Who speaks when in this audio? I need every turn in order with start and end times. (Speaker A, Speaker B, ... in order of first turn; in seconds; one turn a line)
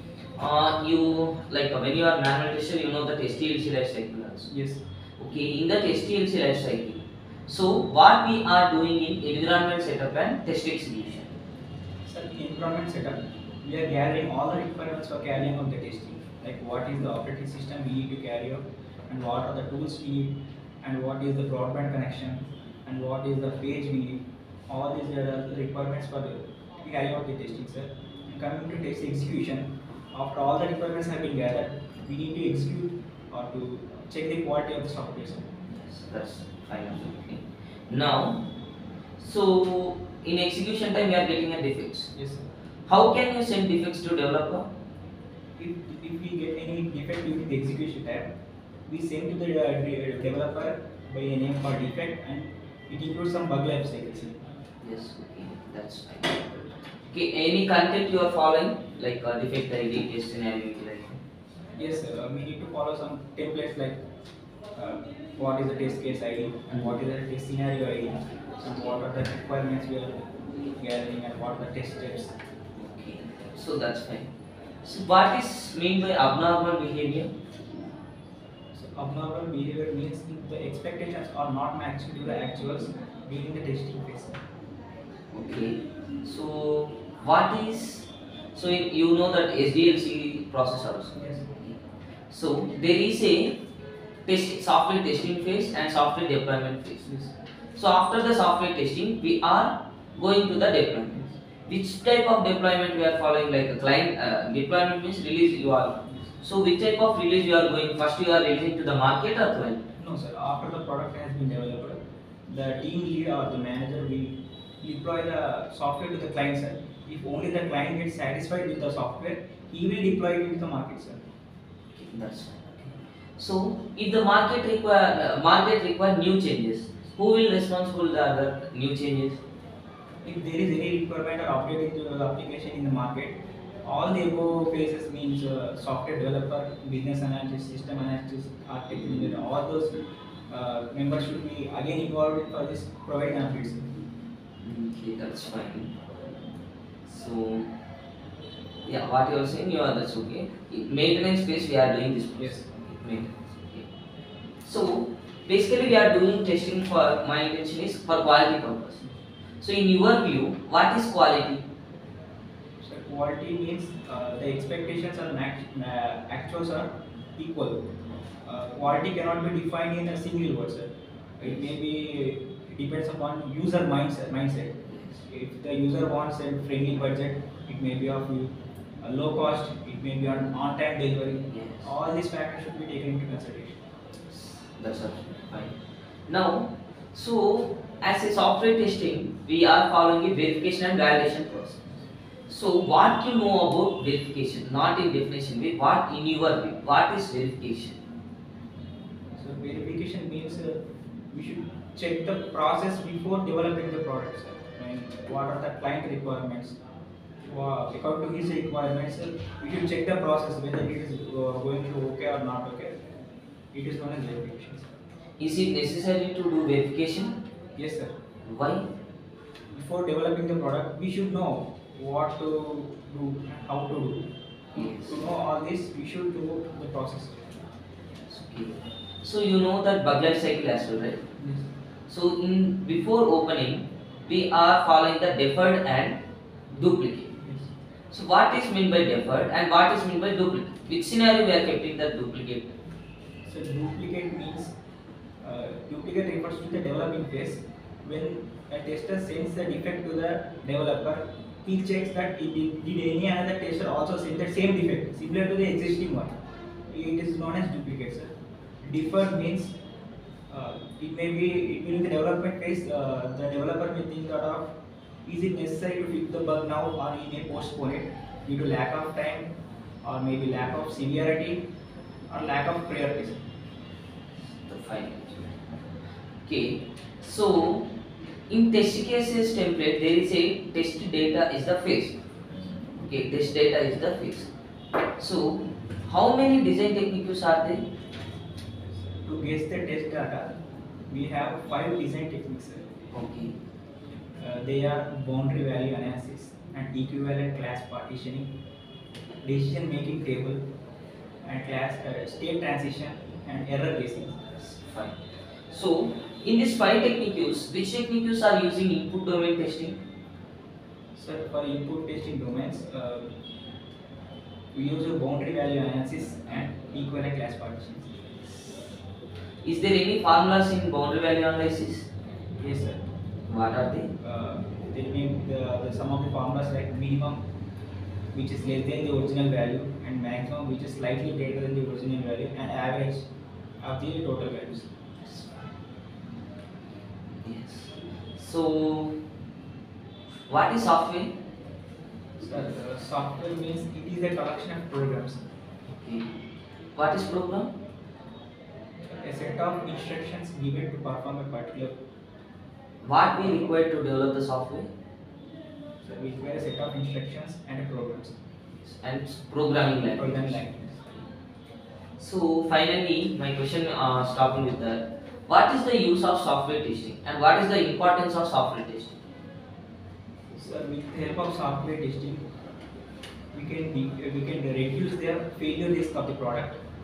Speaker A: 0.3-4.5
Speaker B: 4.5-4.8
Speaker A: 5.2-11.3
Speaker B: 12.1-35.5
Speaker A: 35.7-38.4
Speaker A: 39.2-42.1
Speaker B: 42.1-42.5
Speaker A: 42.9-44.6
Speaker B: 45.6-48.3
Speaker B: 48.9-54.4
Speaker A: 54.8-56.5
Speaker A: 57.0-61.2
Speaker B: 61.8-64.0
Speaker B: 64.7-72.3
Speaker A: 68.6-69.0
Speaker A: 72.8-74.3
Speaker A: 74.8-77.3
Speaker B: 78.7-84.4
Speaker A: 85.3-91.8
Speaker B: 91.1-91.4
Speaker A: 92.3-93.6
Speaker A: 94.2-97.1
Speaker B: 97.1-97.3
Speaker A: 97.8-109.8
Speaker B: 101.1-101.3
Speaker B: 110.0-121.2
Speaker A: 121.9-129.4
Speaker B: 130.2-139.9
Speaker B: 140.5-143.9
Speaker A: 144.6-145.9
Speaker A: 147.0-147.7
Speaker A: 148.8-153.9
Speaker B: 152.4-152.6
Speaker A: 154.6-159.0
Speaker A: 159.6-161.6
Speaker B: 162.8-167.8
Speaker B: 168.4-183.8
Speaker A: 174.9-175.2
Speaker A: 181.5-181.9
Speaker A: 184.3-185.8
Speaker A: 186.3-191.9
Speaker A: 192.5-198.0
Speaker B: 199.3-200.8
Speaker B: 201.3-206.8
Speaker B: 207.4-213.0
Speaker B: 213.7-214.9
Speaker A: 215.4-217.4
Speaker B: 217.8-218.1
Speaker A: 218.4-218.9
Speaker B: 219.7-227.5
Speaker A: 224.7-225.2
Speaker A: 228.3-231.2
Speaker B: 231.4-231.7
Speaker A: 232.1-237.3
Speaker B: 237.3-237.7
Speaker A: 238.1-242.7
Speaker B: 243.4-244.7
Speaker B: 245.4-256.3
Speaker B: 256.9-258.3
Speaker B: 258.8-259.7
Speaker B: 260.5-264.7
Speaker B: 265.2-269.4
Speaker B: 270.0-271.6
Speaker B: 272.3-273.4
Speaker A: 274.6-275.5
Speaker A: 276.4-277.9
Speaker A: 278.5-282.2
Speaker A: 283.0-284.5
Speaker A: 285.2-287.8
Speaker B: 289.2-290.5
Speaker B: 291.1-293.1
Speaker A: 293.1-293.5
Speaker B: 294.4-298.5
Speaker B: 299.4-300.6
Speaker B: 301.4-304.4
Speaker A: 304.5-310.0
Speaker B: 311.1-313.3
Speaker B: 314.7-318.1
Speaker A: 318.5-318.8
Speaker A: 319.6-322.1
Speaker B: 322.6-323.0
Speaker A: 323.5-324.1
Speaker B: 324.2-327.4
Speaker B: 328.3-333.3
Speaker B: 333.8-334.9
Speaker A: 335.2-335.7
Speaker A: 337.3-339.2
Speaker A: 340.5-341.4
Speaker B: 342.4-345.4
Speaker A: 345.9-346.3
Speaker A: 346.9-347.7
Speaker B: 349.1-351.9
Speaker A: 353.0-354.9
Speaker B: 353.3-353.8
Speaker B: 356.0-358.3
Speaker A: 358.8-360.7
Speaker B: 360.1-361.1
Speaker A: 362.2-369.2
Speaker B: 370.5-372.4
Speaker B: 373.5-376.8